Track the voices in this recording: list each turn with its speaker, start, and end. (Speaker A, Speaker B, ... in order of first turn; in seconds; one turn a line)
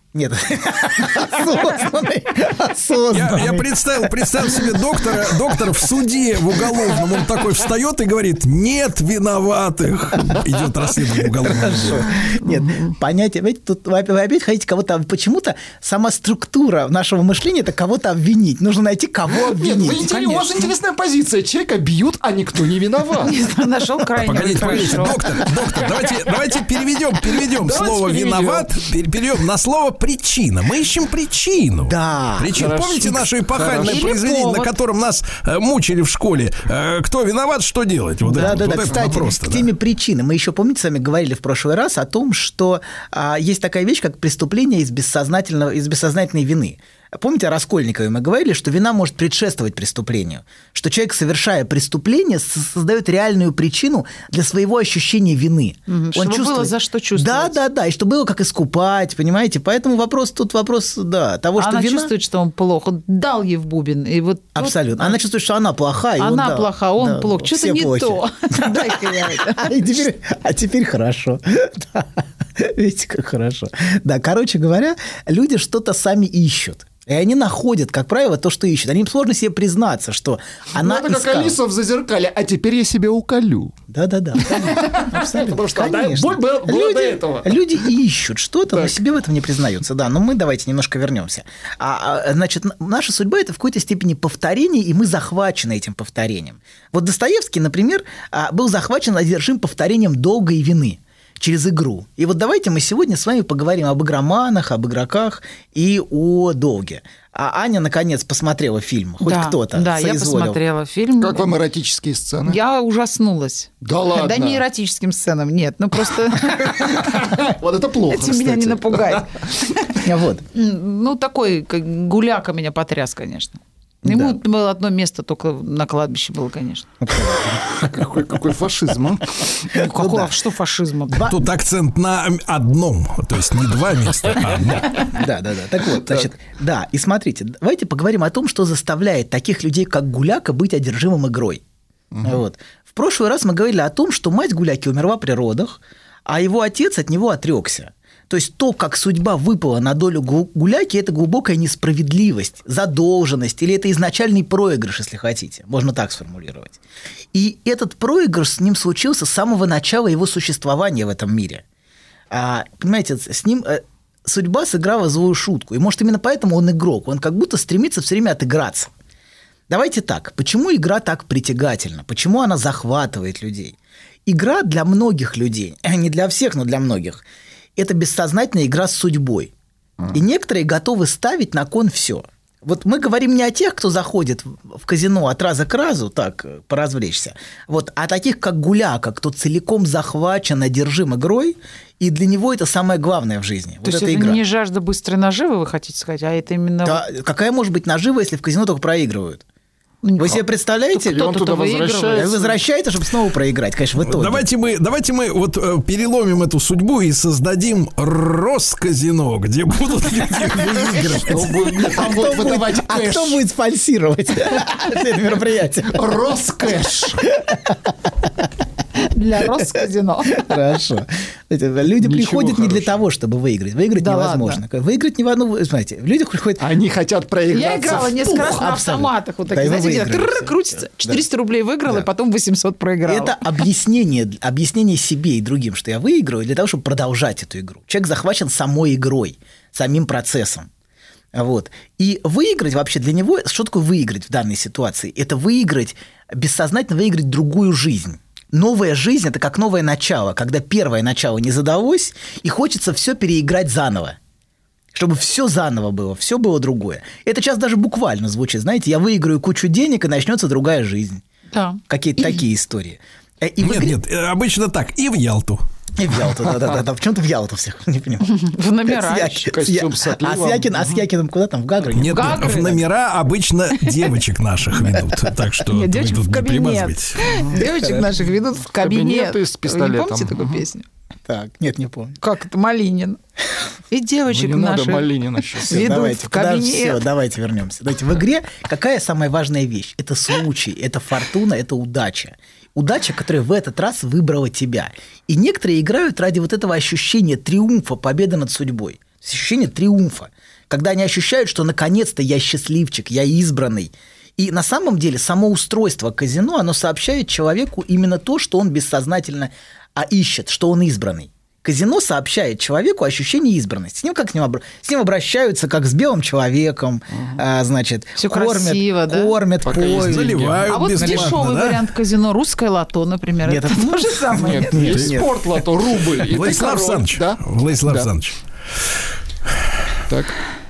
Speaker A: 0.1-5.5
Speaker B: 3.1-12.0
Speaker A: 11.4-20.7
Speaker C: 19.3-23.3
Speaker D: 23.2-25.2
Speaker B: 24.2-39.7
Speaker A: 24.6-24.9
Speaker C: 27.4-28.8
Speaker A: 31.9-32.6
Speaker C: 32.5-34.1
Speaker D: 33.8-34.7
Speaker A: 38.3-62.1
Speaker C: 38.9-39.1
Speaker D: 55.9-57.6
Speaker D: 61.6-65.2
Speaker A: 64.5-81.6
Speaker D: 66.2-69.9
Speaker C: 80.7-83.7
Speaker A: 83.9-110.6
Speaker C: 84.4-87.6
Speaker D: 109.2-111.5
Speaker C: 111.2-112.6
Speaker D: 112.4-117.1
Speaker C: 113.8-114.6
Speaker C: 116.9-119.0
Speaker D: 118.1-119.7
Speaker A: 120.0-120.4
Speaker D: 120.5-126.9
Speaker A: 124.0-124.4
Speaker A: 127.0-127.6
Speaker C: 127.6-129.5
Speaker D: 129.7-131.3
Speaker A: 129.7-130.4
Speaker A: 131.1-131.5
Speaker B: 131.3-135.0
Speaker A: 135.0-141.6
Speaker C: 142.1-142.4
Speaker A: 142.2-156.8
Speaker A: 157.3-161.6
Speaker A: 162.3-168.9
Speaker A: 169.7-177.2
Speaker A: 177.8-179.5
Speaker A: 180.1-194.4
Speaker D: 193.8-197.0
Speaker A: 196.8-199.4
Speaker D: 200.0-200.4
Speaker A: 200.2-201.4
Speaker D: 200.9-202.5
Speaker C: 201.1-202.4
Speaker A: 202.1-204.5
Speaker B: 204.0-211.5
Speaker A: 210.6-216.1
Speaker C: 211.2-213.4
Speaker C: 215.9-217.2
Speaker A: 217.3-217.9
Speaker D: 219.0-220.4
Speaker A: 220.3-226.7
Speaker C: 222.0-223.0
Speaker D: 224.0-224.6
Speaker C: 226.6-228.6
Speaker D: 227.5-233.4
Speaker A: 228.2-231.2
Speaker A: 233.1-240.7
Speaker A: 241.3-254.2
Speaker A: 254.9-261.2
Speaker D: 261.5-261.8
Speaker A: 261.9-264.0
Speaker B: 263.6-265.6
Speaker A: 266.0-272.8
Speaker D: 268.2-269.5
Speaker C: 269.5-271.0
Speaker B: 271.9-277.2
Speaker D: 272.1-272.8
Speaker D: 275.6-280.8
Speaker A: 277.6-278.1
Speaker C: 278.8-280.6
Speaker A: 281.3-282.2
Speaker D: 282.2-283.2
Speaker D: 283.9-287.0
Speaker C: 284.3-285.9
Speaker A: 285.7-320.5
Speaker D: 318.2-319.4
Speaker C: 319.6-320.6
Speaker B: 320.0-321.8
Speaker D: 320.7-324.9
Speaker A: 323.4-325.6
Speaker C: 324.3-328.1
Speaker B: 326.3-328.4
Speaker C: 330.1-330.4